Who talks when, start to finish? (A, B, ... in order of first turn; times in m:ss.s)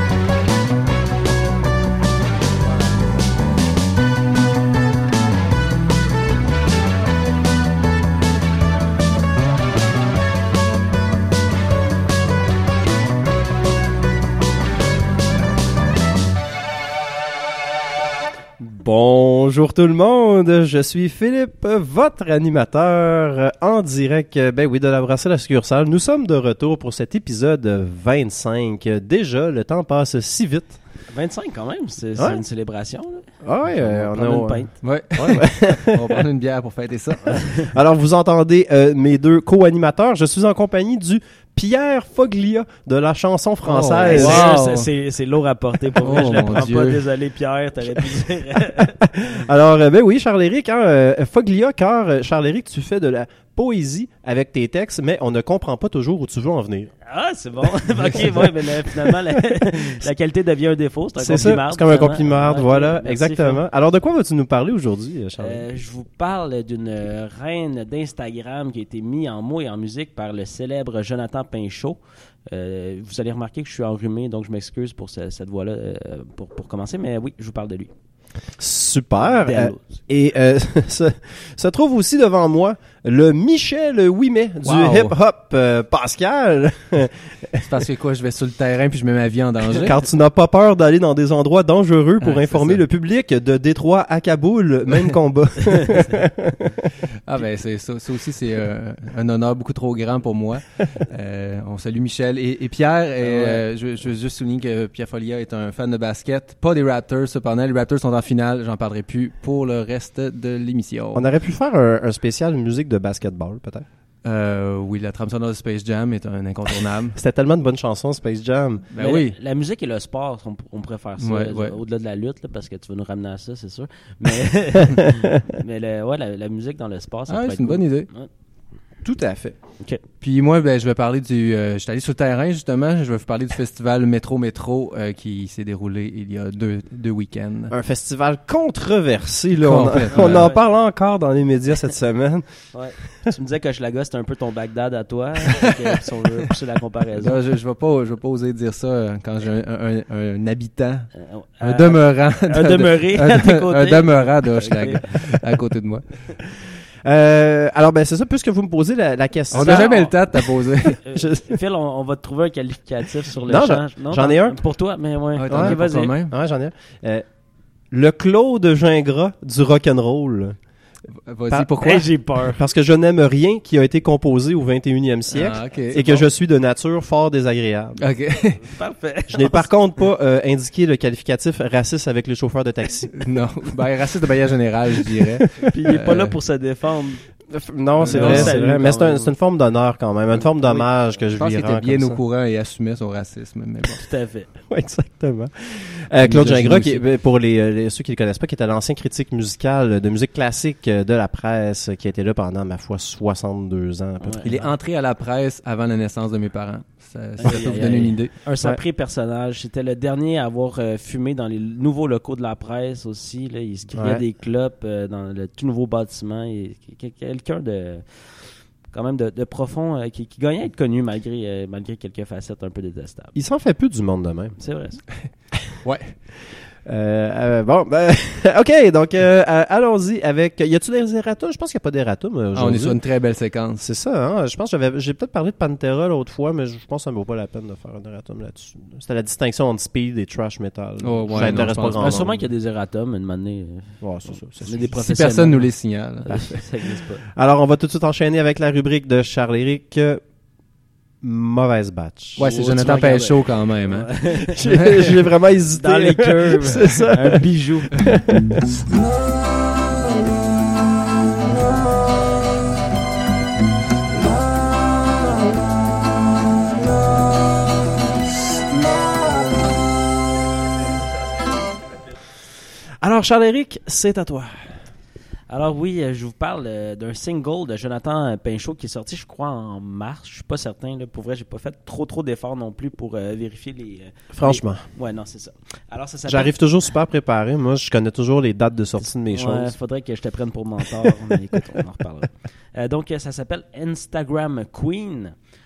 0:18.6-0:30.8 A
0:31.1-0:34.7 B
0:33.4-0:36.2 A
0:34.8-0:37.5 C
0:37.3-0:44.5 A
0:43.6-0:44.9 C
0:44.0-0:49.0 B
0:46.0-0:47.0 C
0:46.2-0:46.6 A
0:48.7-0:56.9 A
0:57.0-1:03.6 B
0:57.9-0:59.6 A
1:01.2-1:05.6 A
1:05.4-1:17.9 B
1:18.6-1:27.8 A
1:19.2-1:19.8 B
1:24.6-1:25.1 C
1:27.6-1:29.9 C
1:29.7-1:36.9 A
1:32.2-1:32.8 C
1:37.2-1:51.3 C
1:43.2-1:43.6 A
1:51.1-1:53.8 A
1:54.2-1:57.2 C
1:57.1-1:58.9 A
1:58.9-1:59.4 C
1:59.0-2:08.3 B
2:01.2-2:01.8 C
2:07.3-2:08.1 C
2:09.0-2:09.6 A
2:10.2-2:17.7 C
2:17.7-2:23.1 A
2:19.6-2:20.5 C
2:20.1-2:20.6 B
2:22.7-2:27.4 B
2:27.2-2:36.3 C
2:31.1-2:35.2 B
2:37.0-2:40.2 A
2:39.5-2:41.0 C
2:39.5-2:40.2 B
2:40.9-2:46.2 B
2:41.1-2:41.5 A
2:43.5-2:44.6 A
2:45.4-2:46.3 C
2:45.5-2:47.2 A
2:47.9-2:50.6 A
2:51.3-2:52.0 C
2:51.5-2:52.6 B
2:52.5-2:58.0 A
2:55.3-2:56.2 C
2:56.0-2:56.2 B
2:58.0-2:58.6 C
2:58.6-2:59.7 B
2:59.3-3:03.2 A
3:03.2-3:06.3 C
3:05.1-3:05.6 A
3:05.6-3:07.2 B
3:07.5-3:12.2 A
3:08.0-3:09.3 B
3:08.0-3:08.6 C
3:10.4-3:14.0 C
3:14.0-3:14.5 B
3:14.7-3:24.7 A
3:16.2-3:17.0 C
3:24.2-3:24.5 B
3:24.4-3:28.3 C
3:27.4-3:43.3 B
3:33.9-3:34.2 A
3:43.3-3:44.6 A
3:44.6-3:45.0 B
3:45.8-3:46.2 C
3:46.5-3:53.0 A
3:52.5-3:53.8 C
3:53.8-4:02.5 A
4:01.0-4:02.2 C
4:01.4-4:07.2 B
4:04.0-4:04.9 A
4:04.9-4:06.3 C
4:06.3-4:06.6 A
4:07.3-4:10.2 A
4:11.2-4:12.5 A
4:12.4-4:15.1 C
4:12.4-4:15.1 B
4:14.5-4:18.6 A
4:15.7-4:18.1 B
4:33.0-4:34.7 A
4:35.5-4:46.5 B
4:44.3-4:44.9 A
4:46.2-4:49.7 A
4:49.3-4:55.3 B